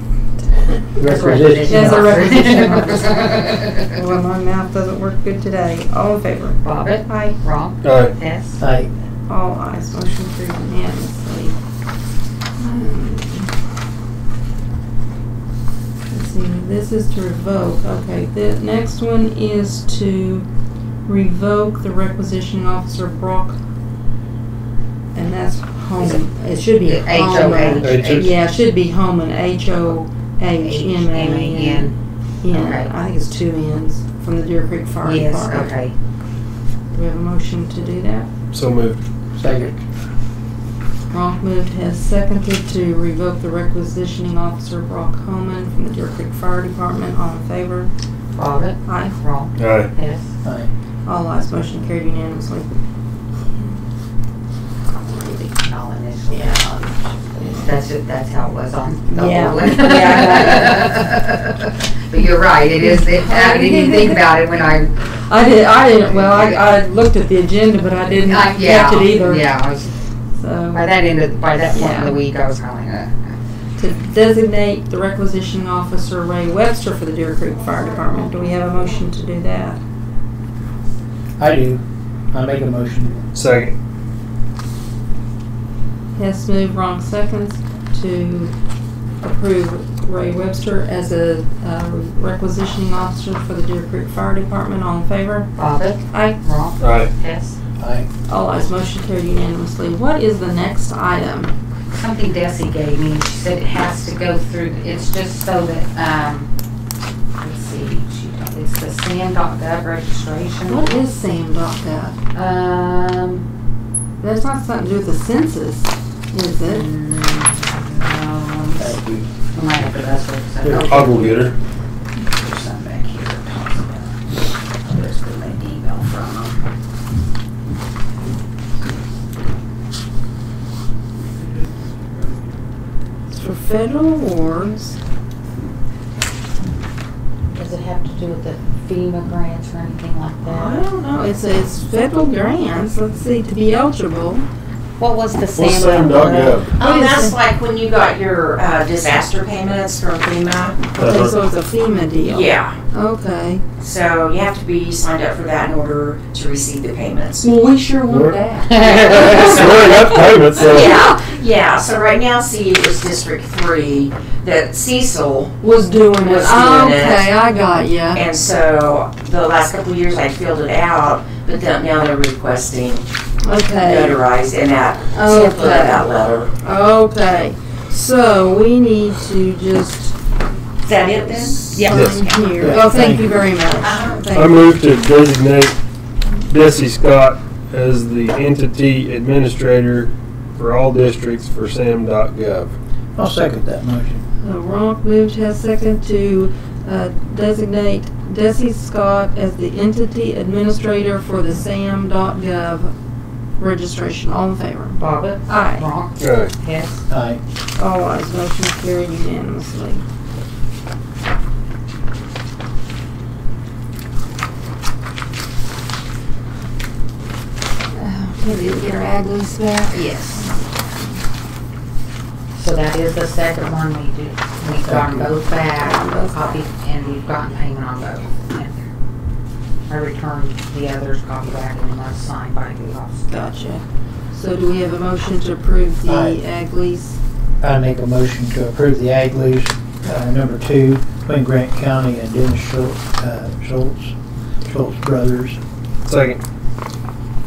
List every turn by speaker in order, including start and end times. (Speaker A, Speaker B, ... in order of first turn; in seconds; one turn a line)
Speaker A: 0.4-0.8
Speaker B: 1.0-2.2
Speaker C: 1.0-3.8
Speaker A: 1.7-7.4
Speaker C: 6.6-8.6
Speaker D: 7.8-8.1
Speaker B: 8.6-8.9
Speaker A: 9.3-11.6
Speaker A: 12.6-13.5
Speaker A: 16.1-20.4
Speaker A: 21.1-23.6
Speaker A: 25.1-35.7
Speaker C: 26.0-26.2
Speaker C: 26.8-28.3
Speaker D: 27.8-28.3
Speaker C: 30.6-31.9
Speaker C: 32.5-32.9
Speaker C: 35.0-35.9
Speaker A: 36.9-38.3
Speaker D: 38.5-39.0
Speaker B: 39.4-39.8
Speaker A: 41.1-47.9
Speaker C: 48.3-50.3
Speaker A: 48.8-49.2
Speaker D: 49.6-49.9
Speaker B: 50.4-50.7
Speaker A: 51.0-52.8
Speaker C: 55.3-64.9
Speaker A: 56.3-56.6
Speaker A: 57.4-57.6
Speaker A: 59.1-61.1
Speaker A: 62.8-64.3
Speaker A: 65.3-69.5
Speaker C: 65.5-66.6
Speaker C: 68.2-69.9
Speaker A: 70.4-70.8
Speaker C: 70.7-73.4
Speaker A: 71.7-72.2
Speaker A: 73.8-79.8
Speaker B: 81.4-83.2
Speaker D: 83.3-83.7
Speaker A: 86.2-88.5
Speaker A: 89.2-95.6
Speaker C: 95.6-97.6
Speaker A: 96.1-96.4
Speaker D: 96.8-97.1
Speaker B: 97.8-98.1
Speaker A: 98.3-101.5
Speaker C: 101.9-106.5
Speaker C: 107.4-111.0
Speaker A: 110.7-112.2
Speaker C: 112.3-113.5
Speaker A: 114.2-116.9
Speaker C: 116.6-118.9
Speaker B: 118.8-119.3
Speaker C: 119.5-121.5
Speaker D: 120.6-121.5
Speaker C: 122.2-126.6
Speaker A: 133.3-135.0
Speaker C: 137.5-140.8
Speaker A: 140.4-144.5
Speaker C: 145.0-146.6
Speaker D: 145.5-146.7
Speaker E: 146.7-150.9
Speaker A: 146.8-147.3
Speaker A: 150.9-153.6
Speaker D: 150.9-151.3
Speaker E: 152.2-152.8
Speaker E: 153.8-157.5
Speaker A: 157.4-161.0
Speaker D: 158.1-158.4
Speaker C: 158.7-159.4
Speaker E: 158.8-165.6
Speaker D: 159.0-161.0
Speaker A: 165.6-168.2
Speaker E: 166.2-167.3
Speaker E: 168.1-173.1
Speaker A: 173.4-174.2
Speaker E: 173.8-176.5
Speaker A: 175.1-180.2
Speaker E: 180.8-182.7
Speaker C: 181.2-182.0
Speaker A: 181.4-184.6
Speaker D: 181.9-182.2
Speaker B: 182.6-183.4
Speaker E: 183.8-184.2
Speaker D: 184.3-185.8
Speaker D: 186.5-192.8
Speaker B: 193.2-194.2
Speaker A: 194.4-202.9
Speaker A: 203.6-205.9
Speaker C: 205.0-207.0
Speaker D: 206.2-206.5
Speaker B: 207.1-207.4
Speaker A: 207.8-210.0
Speaker A: 217.9-221.2
Speaker C: 219.9-220.4
Speaker C: 222.5-228.9
Speaker B: 224.8-225.3
Speaker A: 225.8-226.6
Speaker C: 229.9-233.4
Speaker A: 233.3-237.2
Speaker B: 236.1-236.4
Speaker B: 237.6-245.6
Speaker D: 246.0-246.4